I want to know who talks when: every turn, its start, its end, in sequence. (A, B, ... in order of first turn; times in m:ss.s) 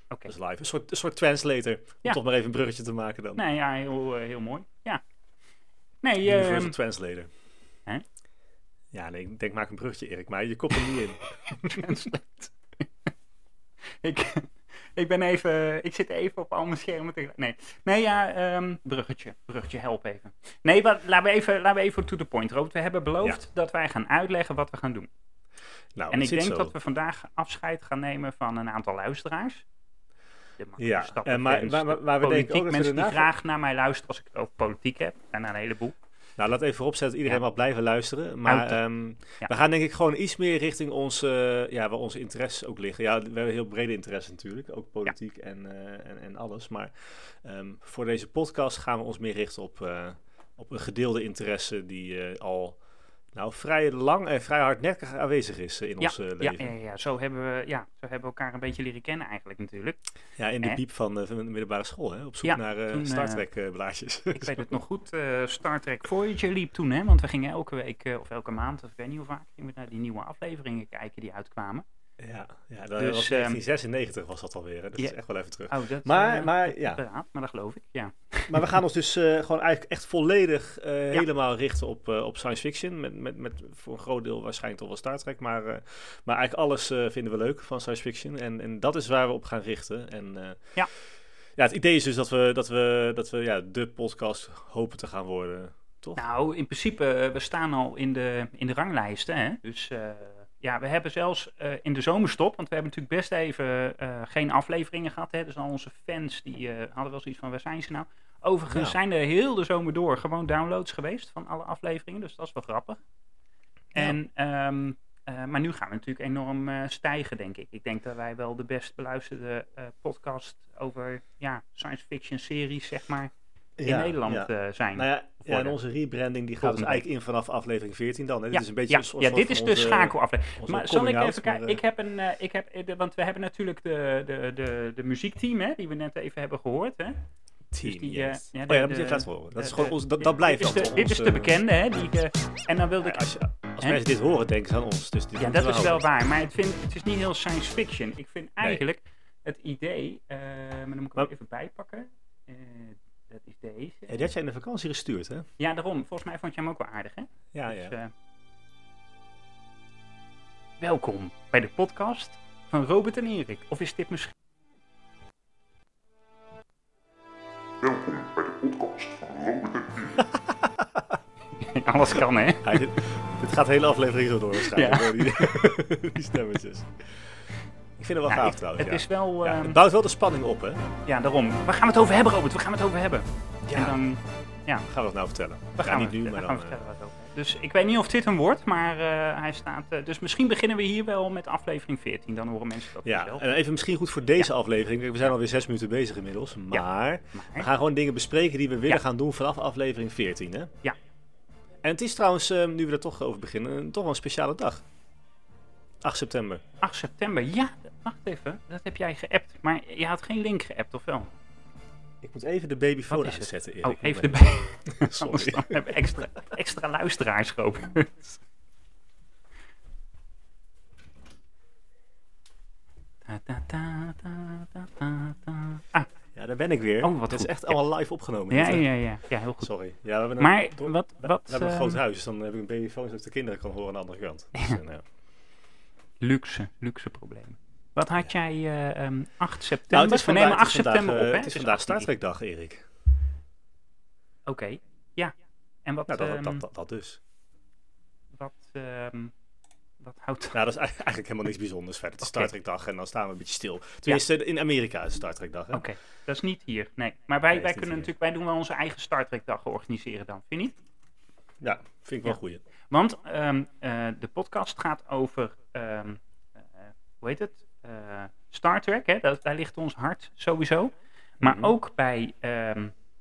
0:00.3-0:03.4 A
0:03.4-0:05.0 B
0:06.0-0:06.8 B
0:06.2-0:07.3 A
0:08.9-0:12.0 A
0:11.5-0:12.9 B
0:14.0-0:25.1 B
0:26.0-0:26.7 A
0:26.1-0:29.6 B
0:30.6-0:36.0 B
0:30.8-0:33.3 A
0:36.4-0:52.8 A
0:38.5-0:38.8 B
0:53.3-0:56.7 A
0:56.0-1:00.0 B
1:00.4-1:04.8 A
1:02.4-1:03.4 B
1:04.3-1:11.8 B
1:12.2-1:17.0 A
1:13.0-1:13.6 B
1:15.7-1:18.7 B
1:18.5-1:30.6 A
1:31.6-1:36.2 A
1:36.2-1:53.0 B
1:48.7-1:49.0 A
1:54.0-2:03.3 B
2:03.8-2:11.8 A
2:03.8-2:05.8 B
2:06.6-2:07.0 B
2:08.5-2:17.2 B
2:17.7-2:21.6 A
2:17.8-2:23.3 B
2:23.0-2:26.0 A
2:25.4-2:34.2 B
2:34.1-2:35.5 A
2:35.6-2:38.1 B
2:37.5-2:38.0 A
2:40.8-2:44.3 B
2:47.8-2:50.2 C
2:50.2-2:51.2 A
2:51.6-2:52.8 B
2:52.6-2:57.3 A
2:54.6-2:55.3 B
2:58.0-3:00.8 A
2:58.3-2:59.8 B
3:01.1-3:04.8 B
3:03.6-3:04.0 A
3:04.9-3:06.8 A
3:05.8-3:13.5 B
3:13.0-3:20.7 A
3:16.7-3:17.7 B
3:21.8-3:24.8 A
3:26.0-3:26.6 A
3:26.8-3:31.3 B
3:32.2-3:36.0 A
3:33.1-3:38.4 B
3:43.2-3:46.1 B
3:46.4-3:48.9 A
3:47.0-3:47.8 B
3:48.5-3:49.7 B
3:49.6-3:55.0 A
3:50.4-3:52.0 B
3:56.2-4:02.1 B
3:59.9-4:02.8 A
4:04.5-4:05.3 B
4:05.8-4:06.6 B
4:06.1-4:07.2 A
4:08.4-4:09.3 B
4:10.0-4:10.6 B
4:10.5-4:15.9 A
4:12.2-4:12.5 B
4:15.7-4:20.8 B
4:17.5-4:18.1 A
4:21.6-4:22.6 A
4:22.9-4:26.2 B
4:26.8-4:32.9 B
4:31.4-4:31.7 A